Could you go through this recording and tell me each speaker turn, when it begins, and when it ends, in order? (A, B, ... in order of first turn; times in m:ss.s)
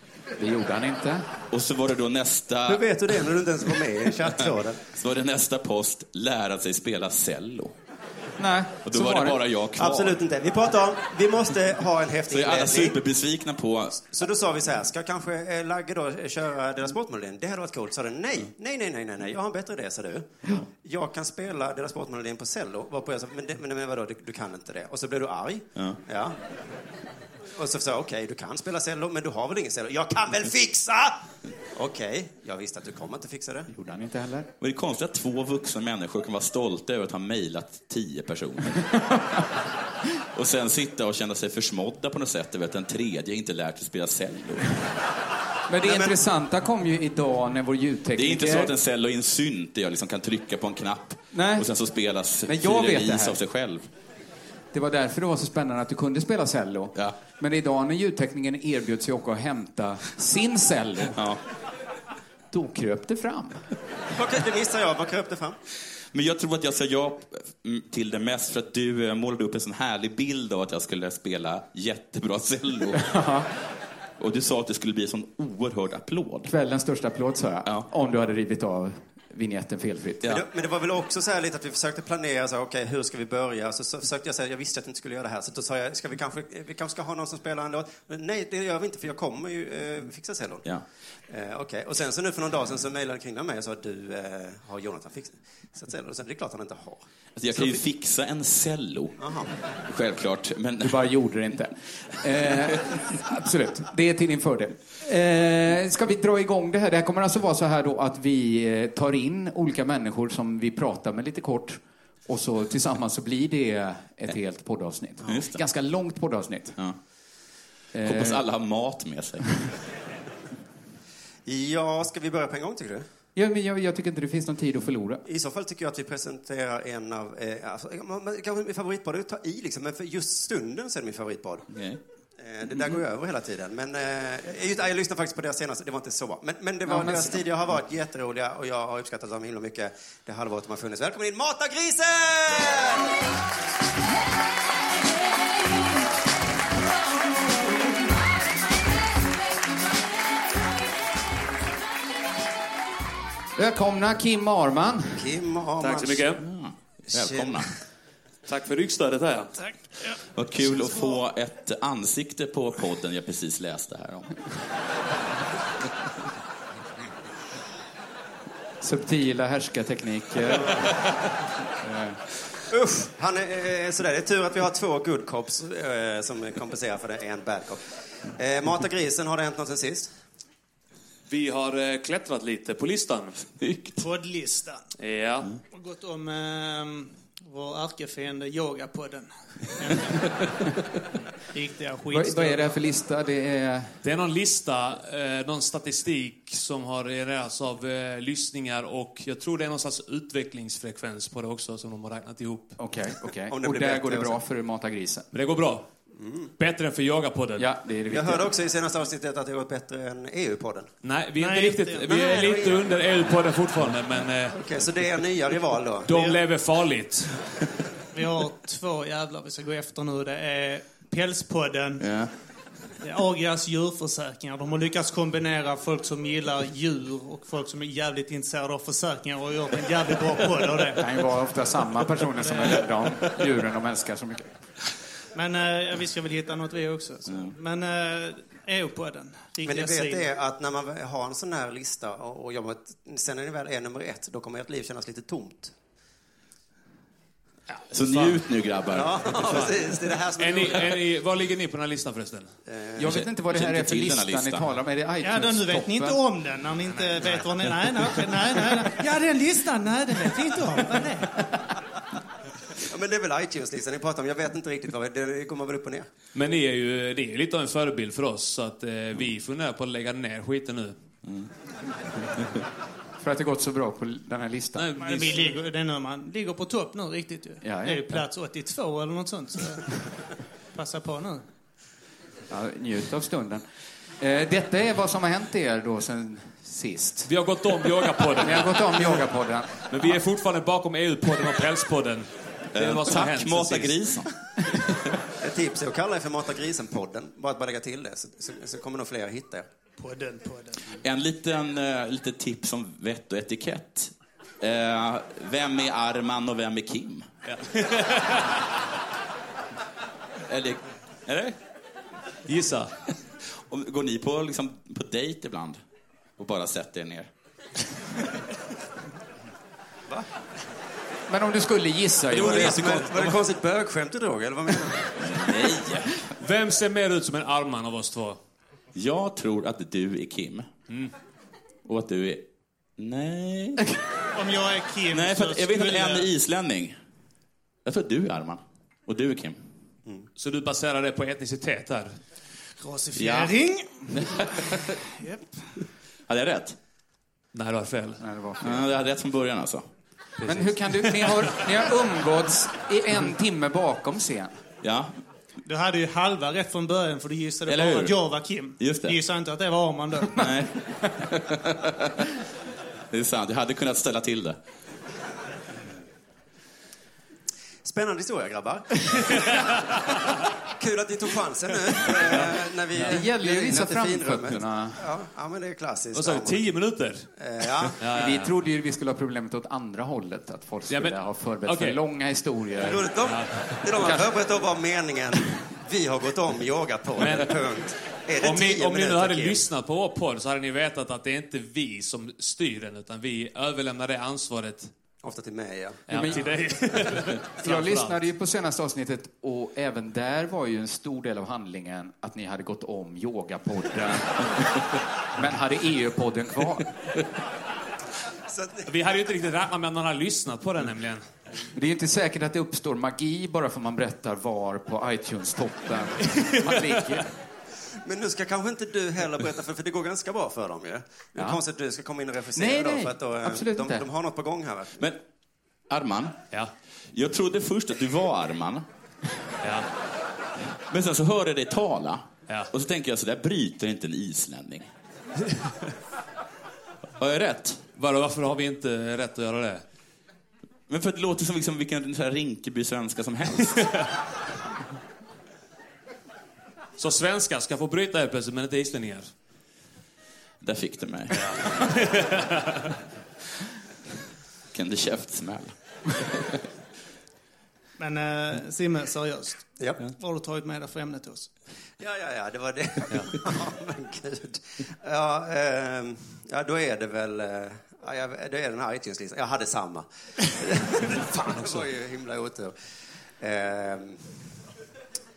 0:00.4-0:01.2 A
0:01.5-0:03.3 B
0:02.7-0:04.8 C
0:04.9-0:07.7 B
0:08.4-0:09.4 A
0:08.8-0:10.2 B
0:09.8-0:13.0 C
0:12.3-0:14.0 B
0:14.1-0:26.4 C
0:27.5-0:31.2 C
0:31.7-0:33.7 C
0:33.7-0:34.5 A
0:34.6-0:38.8 B
0:40.3-0:44.8 B
0:45.7-0:48.7 A
0:45.8-0:46.1 C
0:48.1-0:53.9 B
0:51.3-0:51.7 A
0:52.4-0:53.4 A
0:54.7-1:01.2 A
1:01.1-1:01.4 B
1:02.5-1:03.6 A
1:04.2-1:05.6 C
1:06.1-1:13.0 B
1:12.9-1:13.5 A
1:14.2-1:16.5 B
1:16.4-1:20.2 A
1:20.2-1:30.7 C
1:31.3-1:37.8 C
1:37.4-1:41.0 B
1:39.2-1:39.6 C
1:40.8-1:56.8 A
1:55.2-1:55.6 B
1:57.9-1:58.4 A
1:58.0-1:59.5 B
2:01.4-2:03.0 C
2:03.4-2:05.2 A
2:05.2-2:11.7 C
2:11.7-2:12.0 B
2:12.4-2:23.1 C
2:16.9-2:17.4 A
2:33.6-2:35.2 A
2:35.2-2:36.4 C
2:35.8-2:36.4 D
2:36.4-2:37.7 B
2:37.2-2:37.5 C
2:38.5-2:39.5 D
2:40.3-2:44.3 B
2:48.8-2:50.9 A
2:51.8-2:52.2 A
2:52.7-3:00.1 C
3:01.3-3:03.4 D
3:03.6-3:04.0 B
3:04.0-3:04.8 E
3:05.0-3:05.5 D
3:05.7-3:10.5 E
3:11.5-3:12.8 E
3:12.1-3:14.0 A
3:14.0-3:22.8 D
3:22.8-3:25.3 A
3:23.5-3:24.4 C
3:25.3-3:25.8 D
3:26.2-3:26.5 C
3:26.6-3:27.7 D
3:27.6-3:28.5 A
3:28.1-3:30.9 C
3:31.0-3:34.6 D
3:31.4-3:33.0 E
3:32.1-3:32.7 C
3:34.5-3:36.4 C
3:36.0-3:37.3 D
3:38.1-3:42.1 E
3:42.0-3:42.3 B
3:43.0-3:51.1 E
3:51.0-3:54.5 A
3:52.4-3:52.9 E
3:55.3-4:00.3 E
3:57.3-3:57.6 B
3:59.6-4:05.7 C
4:07.9-4:09.7 B
4:08.1-4:08.4 D
4:08.9-4:11.0 C
4:09.5-4:12.6 D
4:12.7-4:13.2 C
4:13.0-4:16.2 A
4:13.0-4:14.6 B
4:15.2-4:21.4 E
4:22.8-4:26.1 C
4:26.3-4:30.9 D
4:33.2-4:35.1 A
4:34.8-4:35.5 D
4:34.9-4:40.1 E
4:37.6-4:38.2 A
4:40.7-4:41.4 E
4:42.5-4:43.6 A
4:44.2-4:47.3 A
4:47.2-4:49.2 D
4:48.4-4:50.2 A
4:49.9-4:54.2 D
4:52.7-4:54.3 B
4:55.4-4:59.6 C
5:00.0-5:01.0 E
5:01.0-5:07.2 B
5:07.5-5:08.4 D
5:10.5-5:11.6 B
5:12.5-5:12.9 D
5:13.6-5:15.8 B
5:16.4-5:17.3 B
5:21.3-5:23.3 A
5:22.3-5:25.4 C
5:25.2-5:26.2 B
5:26.4-5:28.4 D
5:28.9-5:30.7 B
5:31.8-5:32.4 B
5:33.0-5:33.8 B
5:34.3-5:36.3 E
5:35.1-5:37.0 B
5:37.8-5:39.6 B
5:40.4-5:42.2 D
5:42.8-5:44.6 E
5:43.1-5:43.6 B
5:44.1-5:44.9 B
5:45.2-5:45.6 E
5:46.3-5:46.8 B
5:47.5-5:48.2 D
5:48.2-5:48.8 A
5:48.6-5:49.8 B
5:50.4-5:54.6 A
5:50.4-5:50.7 D
5:54.8-5:55.2 B
5:55.6-6:00.4 E
5:57.7-5:59.2 B
6:00.4-6:02.1 B
6:03.1-6:04.6 B
6:07.8-6:09.7 C
6:10.7-6:18.0 C
6:12.9-6:15.0 A
6:16.1-6:17.3 D
6:18.0-6:18.5 D
6:18.1-6:23.1 A
6:20.9-6:22.0 D
6:22.8-6:29.6 C
6:23.2-6:24.2 D
6:27.2-6:27.7 D
6:28.4-6:34.9 D
6:35.2-6:36.0 C
6:36.1-6:38.2 D
6:36.1-6:36.4 A
6:37.6-6:46.9 A
6:48.5-6:48.9 C
6:48.8-6:51.2 D
6:51.7-6:57.3 A
6:56.4-6:56.7 D
6:58.0-7:05.1 C
7:02.6-7:04.0 A
7:05.9-7:06.4 B
7:07.1-7:08.8 B
7:09.6-7:09.9 D
7:10.9-7:14.9 B
7:17.2-7:17.8 B
7:18.0-7:19.8 D
7:20.9-7:24.0 B
7:27.0-7:29.3 D
7:30.6-7:31.9 B
7:31.8-7:32.3 D
7:34.7-7:36.5 B
7:38.0-7:41.5 E
7:39.8-7:40.1 C
7:42.0-7:52.7 C
7:51.6-7:51.8 D
7:53.4-7:54.4 C